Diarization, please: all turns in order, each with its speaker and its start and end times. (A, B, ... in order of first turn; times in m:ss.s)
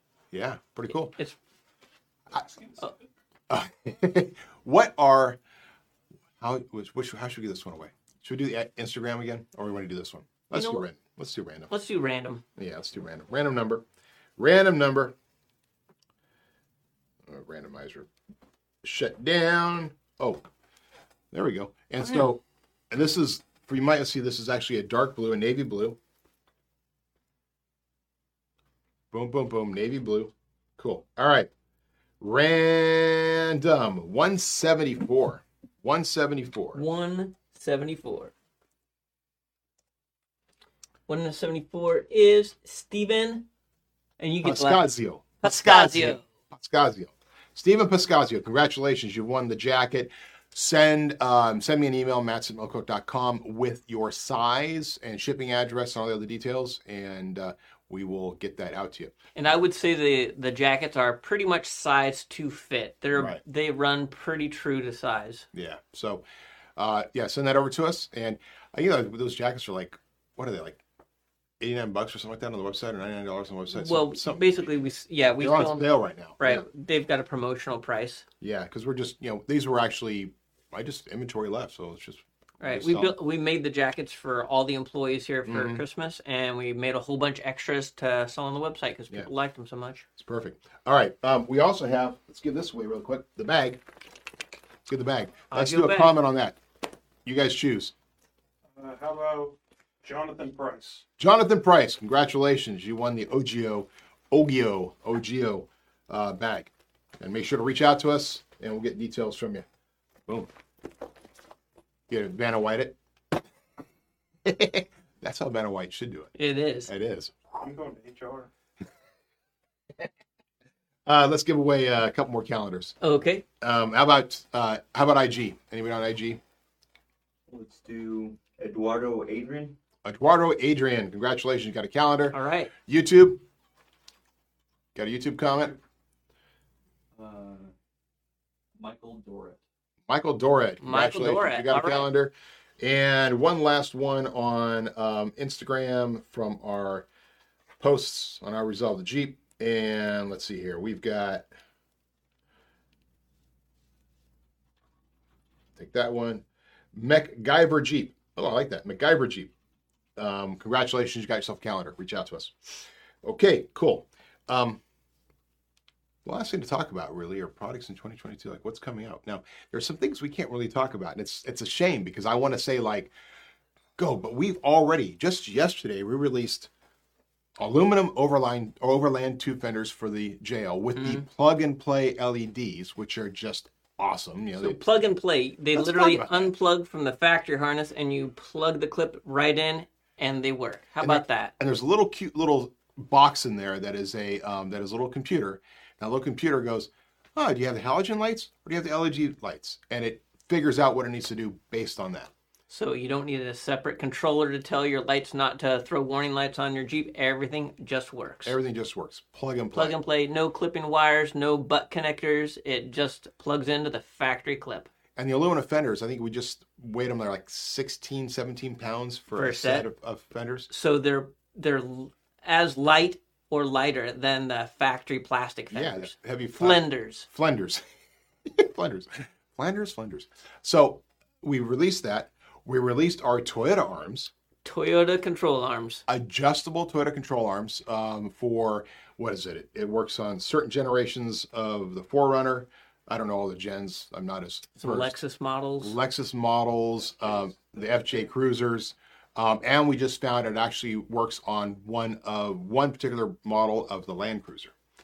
0:00.3-0:01.1 A
0:00.9-0:01.4 B
0:03.5-0:05.4 A
0:06.4-0:11.7 A
0:10.5-0:10.8 B
0:11.7-0:12.4 B
0:12.6-0:13.8 A
0:14.4-0:15.2 A
0:17.3-0:18.1 A
0:18.8-0:20.4 A
0:21.3-0:26.0 A
0:29.1-0:31.5 A
0:32.2-0:36.8 A
0:36.7-0:38.3 B
0:41.1-0:43.5 B
0:44.2-0:44.8 B
0:44.4-0:59.1 A
0:45.4-0:46.2 B
0:59.4-1:05.5 B
1:03.1-1:03.4 A
1:05.5-1:06.2 A
1:06.8-1:10.8 A
1:11.6-1:14.6 A
1:13.7-1:15.9 B
1:15.4-1:16.7 A
1:16.4-1:18.3 B
1:18.4-1:23.2 A
1:22.6-1:30.1 B
1:25.5-1:25.8 A
1:30.2-1:33.8 A
1:34.9-1:36.6 A
1:35.5-1:36.2 B
1:37.2-1:37.9 A
1:38.8-1:41.0 C
1:41.2-1:49.7 A
1:52.1-1:53.0 A
1:54.4-1:56.3 A
1:56.4-1:56.9 B
1:56.9-1:57.3 A
1:57.6-1:58.5 C
2:01.1-2:03.0 A
2:03.0-2:03.4 B
2:03.6-2:06.4 A
2:07.5-2:09.8 D
2:10.0-2:13.4 A
2:12.3-2:12.7 B
2:15.0-2:15.8 A
2:17.2-2:17.7 D
2:18.8-2:19.6 D
2:20.1-2:27.1 A
2:20.8-2:22.1 B
2:27.8-2:31.5 A
2:35.8-2:39.5 A
2:40.2-2:44.8 A
2:46.2-2:53.1 A
2:54.0-2:56.7 A
2:57.6-3:04.8 A
3:01.0-3:01.2 B
3:04.6-3:11.5 B
3:05.8-3:06.5 A
3:11.0-3:22.3 A
3:22.7-3:28.6 B
3:28.4-3:30.0 A
3:29.8-3:34.9 B
3:35.2-3:40.7 A
3:39.3-3:39.9 B
3:40.7-3:47.3 B
3:45.7-3:47.8 A
3:48.5-3:54.3 A
3:54.6-3:56.0 B
3:56.1-4:05.2 A
4:04.8-4:06.0 B
4:05.8-4:14.7 A